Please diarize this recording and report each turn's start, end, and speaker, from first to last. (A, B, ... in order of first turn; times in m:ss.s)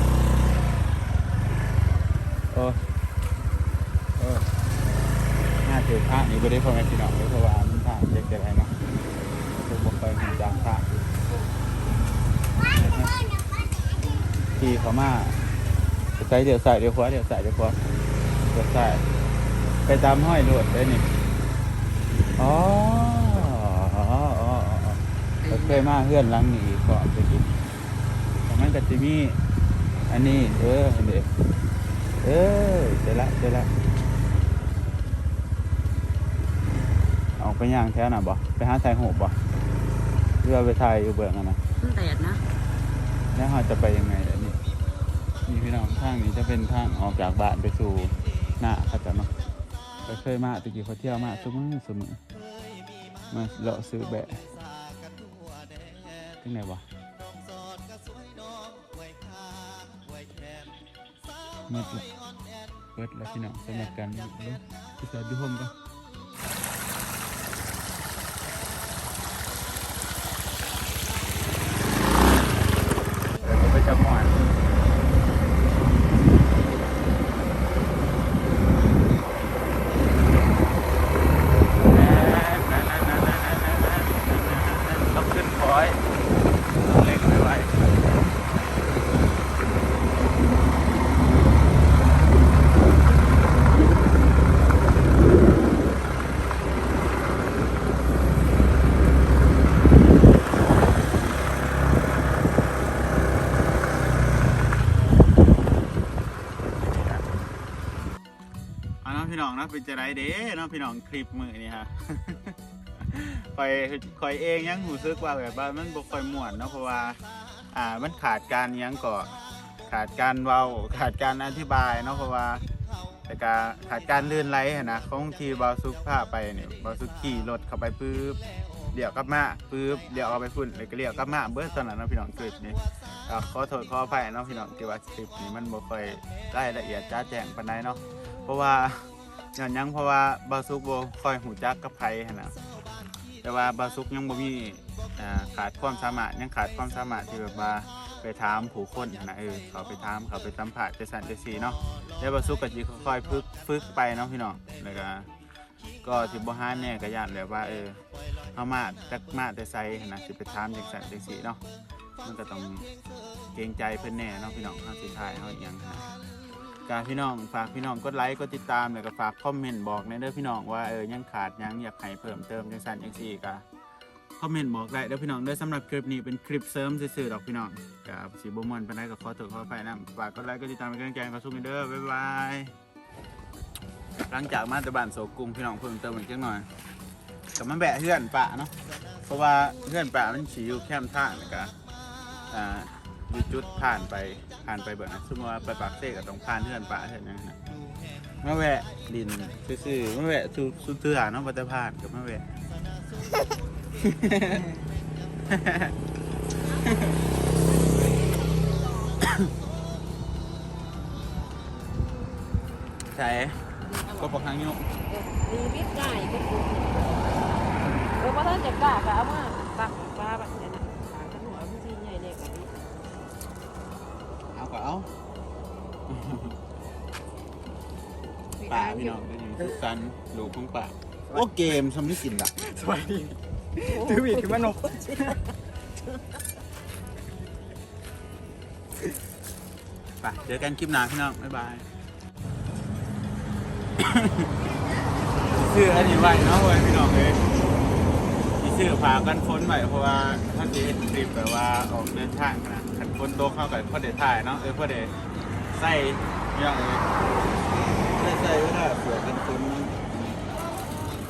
0:02.5-0:02.8 A
0:04.2-0:04.5 A
0:05.6-0:08.8 A
0:09.5-0:10.9 A
0:12.7-0:13.1 A
0:14.5-0:15.4 A
0:16.2-0:17.8 A
0:18.5-0:19.0 A
0:19.8-0:21.0 A
0:22.4-0:27.5 A
0:25.4-0:25.8 B
0:28.5-0:29.4 A
0:30.1-0:31.3 A
0:32.2-0:33.7 A
0:37.4-0:39.4 A
0:40.4-0:41.6 A
0:41.8-0:42.4 B
0:43.3-0:44.6 A
0:45.4-0:49.3 A
0:50.1-0:52.2 A
0:53.3-0:54.4 A
0:56.4-0:56.8 A
1:01.7-1:02.0 A
1:02.9-1:05.7 A
1:13.4-1:14.4 A
1:21.8-1:26.0 A
1:26.8-1:28.1 A
1:46.6-1:47.2 A
1:49.0-1:57.2 A
1:57.7-1:59.3 A
1:59.8-2:02.6 A
2:03.3-2:08.4 A
2:08.9-2:22.6 A
2:23.4-2:35.3 A
2:36.0-2:38.0 A
2:38.5-2:41.6 A
2:42.2-2:42.9 A
2:43.5-2:46.1 A
2:46.8-2:53.6 A
2:54.4-3:02.7 A
3:04.3-3:06.6 A
3:07.6-3:08.7 A
3:09.2-3:11.7 A
3:12.5-3:17.6 A
3:18.4-3:22.5 A
3:24.0-3:24.6 A
3:25.5-3:25.9 A
3:26.7-3:27.2 A
3:33.0-3:34.9 A
3:34.0-3:34.3 C
3:35.1-3:37.6 C
3:37.8-3:38.1 A
3:38.2-3:42.7 C
3:44.5-3:45.1 A
3:46.1-3:46.6 A
3:48.7-3:52.6 A
3:52.6-3:55.4 B
3:53.9-3:54.6 C
4:00.2-4:01.8 A
4:04.0-4:04.5 A
4:05.4-4:07.4 A
4:08.6-4:15.1 A
4:15.7-4:17.1 A
4:18.0-4:20.0 A